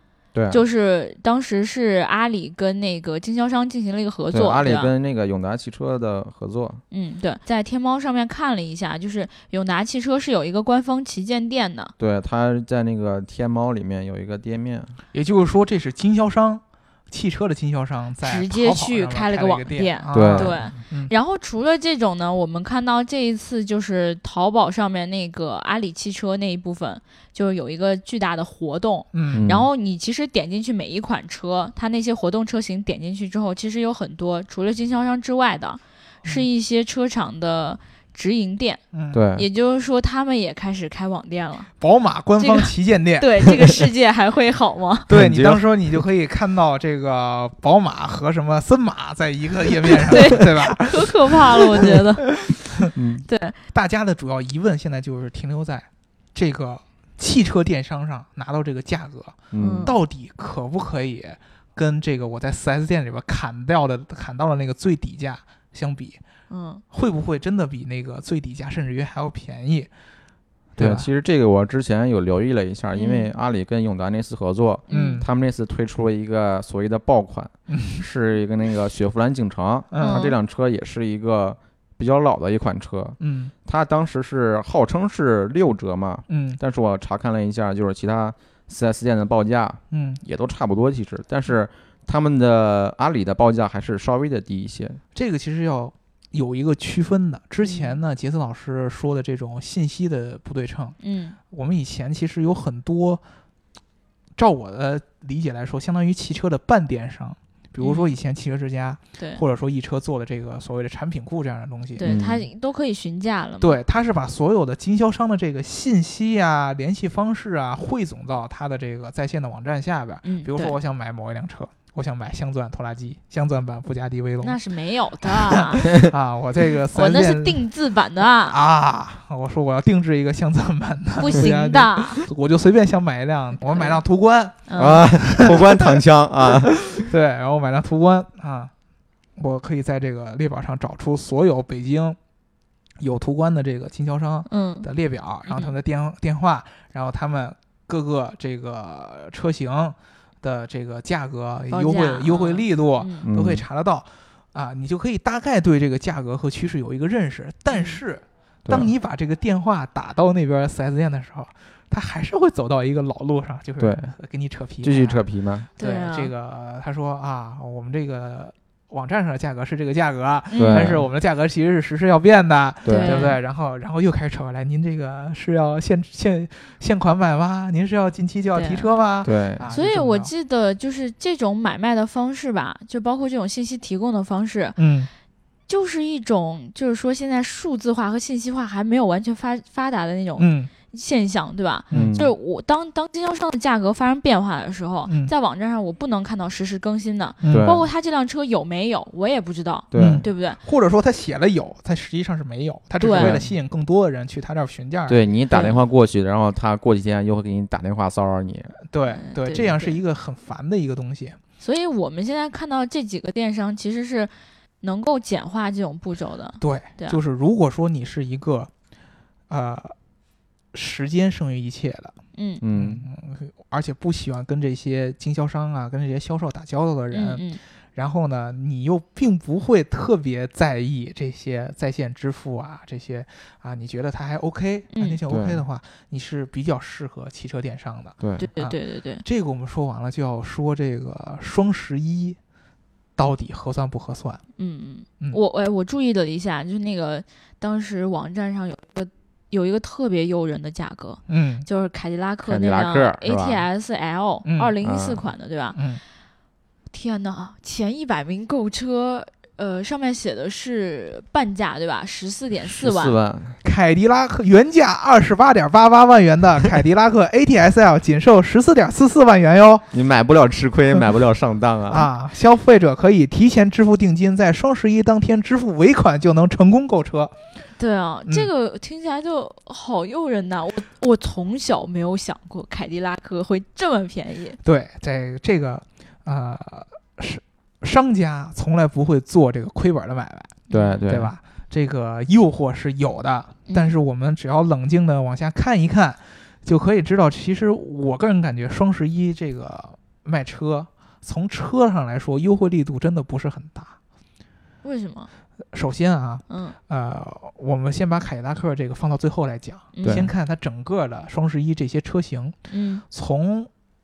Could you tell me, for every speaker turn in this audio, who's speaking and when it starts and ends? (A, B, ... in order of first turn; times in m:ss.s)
0:00.3-0:00.6 A
0:00.5-0:04.9 B
0:04.3-0:06.8 A
0:06.9-0:11.9 B
0:12.0-0:14.9 A
0:15.1-0:21.1 C
0:18.2-0:38.8 B
0:20.1-0:20.6 A
0:29.1-0:29.5 C
0:29.3-0:29.7 A
0:38.9-0:39.2 C
0:39.1-0:39.5 A
0:39.3-0:41.7 B
0:41.8-0:43.4 C
0:42.4-0:45.1 B
0:45.1-0:46.0 A
0:45.1-0:52.9 C
0:50.1-0:52.3 B
0:52.9-0:53.2 A
0:53.3-0:53.6 B
0:53.7-1:06.2 C
0:59.5-0:59.9 A
0:59.6-0:59.9 B
1:06.5-1:06.8 B
1:06.9-1:09.9 C
1:10.8-1:11.1 C
1:10.8-1:35.0 A
1:12.9-1:13.3 B
1:14.9-1:15.2 B
1:14.9-1:15.3 C
1:17.7-1:18.0 C
1:19.9-1:20.3 C
1:20.0-1:20.3 B
1:23.2-1:23.5 C
1:26.3-1:26.6 C
1:29.9-1:30.2 C
1:35.1-1:41.0 C
1:37.6-1:37.9 B
1:41.0-1:41.4 B
1:41.5-1:43.2 C
1:44.4-1:52.1 C
1:47.8-1:48.1 B
1:52.0-1:53.8 B
1:52.0-1:52.4 A
1:53.6-2:04.6 C
2:00.2-2:00.8 B
2:04.4-2:06.0 B
2:05.2-2:07.6 C
2:06.9-2:08.6 B
2:08.5-2:18.7 C
2:11.2-2:12.3 B
2:13.7-2:14.0 B
2:14.7-2:15.0 B
2:14.8-2:16.9 A
2:19.4-2:22.2 C
2:23.0-2:45.2 C
2:24.5-2:24.9 B
2:25.4-2:25.7 B
2:31.7-2:33.3 B
2:33.2-2:33.6 A
2:37.7-2:38.0 B
2:38.6-2:38.9 A
2:43.8-2:44.1 A
2:44.8-2:45.7 A
2:45.8-3:00.3 C
2:45.8-2:46.3 B
2:50.5-2:50.9 B
2:50.6-2:51.0 A
2:52.8-2:53.3 A
2:52.9-2:53.4 B
2:58.5-2:58.9 B
2:59.2-2:59.6 A
2:59.7-3:04.8 B
3:04.8-3:05.1 C
3:05.7-3:20.6 B
3:10.4-3:10.7 C
3:11.9-3:12.2 C
3:11.9-3:12.3 A
3:15.1-3:15.3 C
3:17.4-3:17.8 C
3:17.5-3:17.8 A
3:19.9-3:20.2 A
3:19.9-3:25.2 C
3:23.0-3:23.4 B
3:23.1-3:23.5 A
3:25.1-3:28.8 A
3:25.5-3:25.8 B
3:28.8-3:31.4 C
3:29.2-3:30.0 B
3:31.6-3:37.2 B
3:36.6-3:38.7 C
3:39.5-3:40.0 C
3:40.7-3:42.2 C
3:42.3-3:42.6 B
3:42.6-3:43.0 A
3:42.7-4:02.4 C
3:47.1-3:47.6 B
3:54.9-3:55.2 B
3:55.3-3:55.6 A
3:58.2-3:58.4 A
3:58.4-3:59.2 B
4:03.2-4:04.4 C
4:04.6-4:15.8 B
4:11.3-4:11.7 C
4:12.4-4:13.6 A
4:14.4-4:14.7 C
4:14.8-4:15.2 A
4:15.7-4:16.0 C
4:16.9-4:23.2 B
4:22.7-4:23.6 A
4:23.6-4:29.9 C
4:29.9-4:32.1 A
4:31.9-4:37.3 C
4:37.8-4:44.6 B
4:44.6-5:04.0 C
4:50.7-4:51.0 B
4:50.7-4:51.3 A
4:53.7-4:53.9 B
5:04.8-5:05.3 B
5:05.7-5:12.6 C
5:06.5-5:06.8 B
5:09.9-5:10.2 B
5:10.0-5:10.3 A
5:12.7-5:13.0 B
5:13.1-5:13.7 C